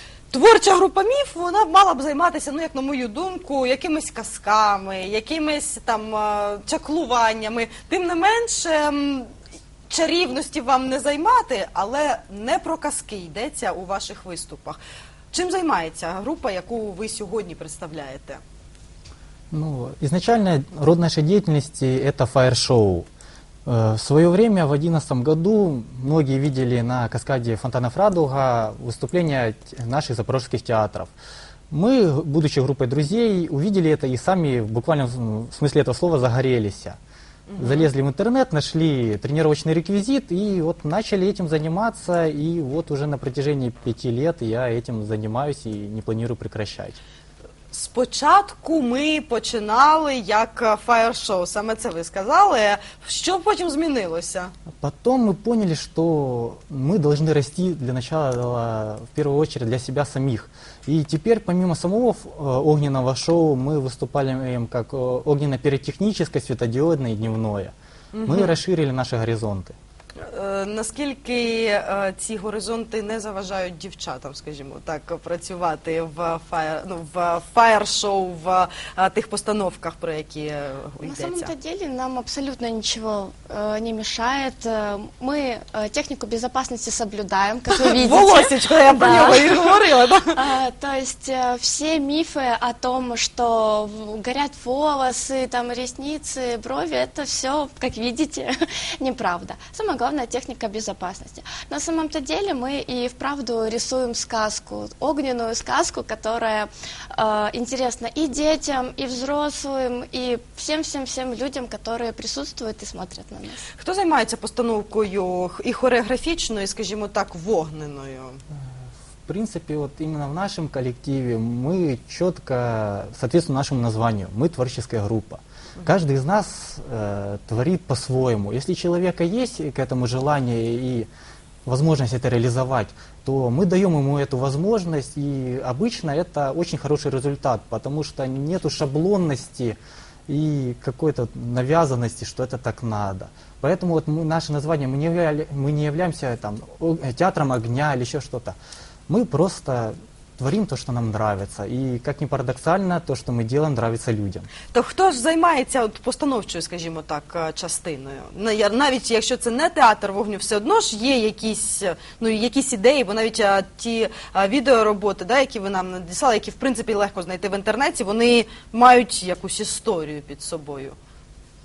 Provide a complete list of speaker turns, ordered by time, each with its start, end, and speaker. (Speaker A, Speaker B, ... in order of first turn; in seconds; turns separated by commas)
Speaker A: 0.3-9.3, Speaker A: 9.9-14.8, Speaker A: 15.3-18.4, Speaker B: 19.5-23.1, Speaker B: 23.6-31.1, Speaker B: 31.7-37.0, Speaker A: 37.5-37.9, Speaker B: 37.6-47.0, Speaker A: 47.7-54.5, Speaker B: 54.8-67.7, Speaker A: 68.1-68.5, Speaker B: 68.2-69.7, Speaker A: 70.2-81.5, Speaker C: 81.0-89.7, Speaker A: 87.7-90.3, Speaker C: 90.3-113.6, Speaker A: 113.8-118.4, Speaker B: 119.2-131.1, Speaker B: 131.6-148.6, Speaker B: 149.1-154.5, Speaker A: 154.7-171.0